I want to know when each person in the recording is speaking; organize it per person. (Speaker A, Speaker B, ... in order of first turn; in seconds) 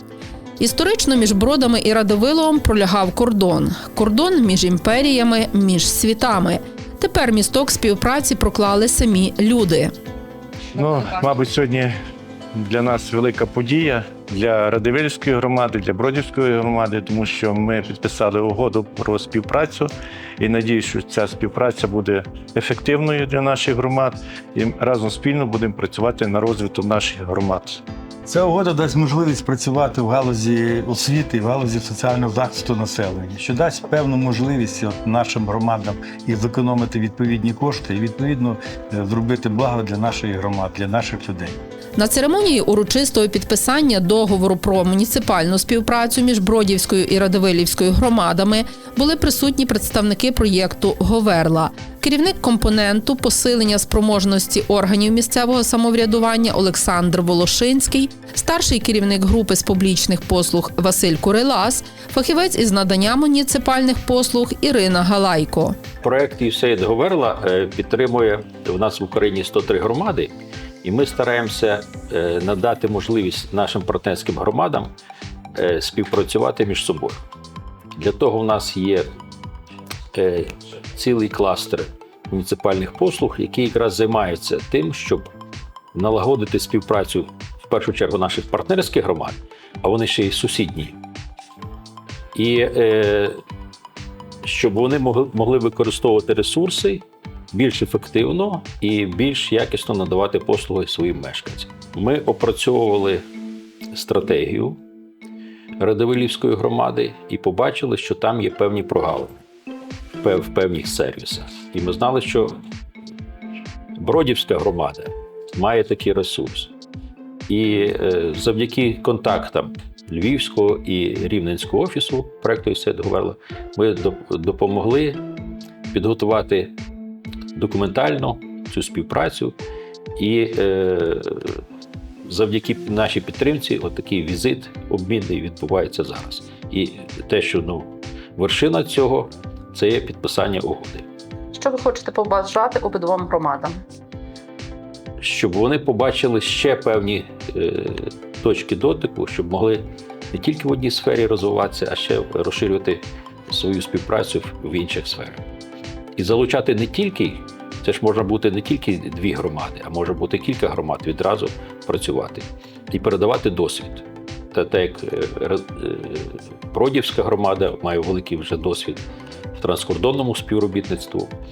Speaker A: 0.6-9.9, 42.0-65.8, 141.5-143.8
Speaker B: 10.7-11.9, 12.5-27.8
Speaker C: 28.3-41.6
Speaker D: 66.0-74.9, 75.6-77.2, 78.0-79.1, 80.1-85.3, 85.9-91.0, 92.3-93.4, 94.4-103.2, 103.9-104.8, 105.8-109.4, 110.2-112.6, 114.0-116.7, 117.5-125.2, 125.9-126.8, 127.5-129.6, 130.2-131.6, 132.2-141.1, 145.2-155.4, 156.2-169.0, 169.6-171.3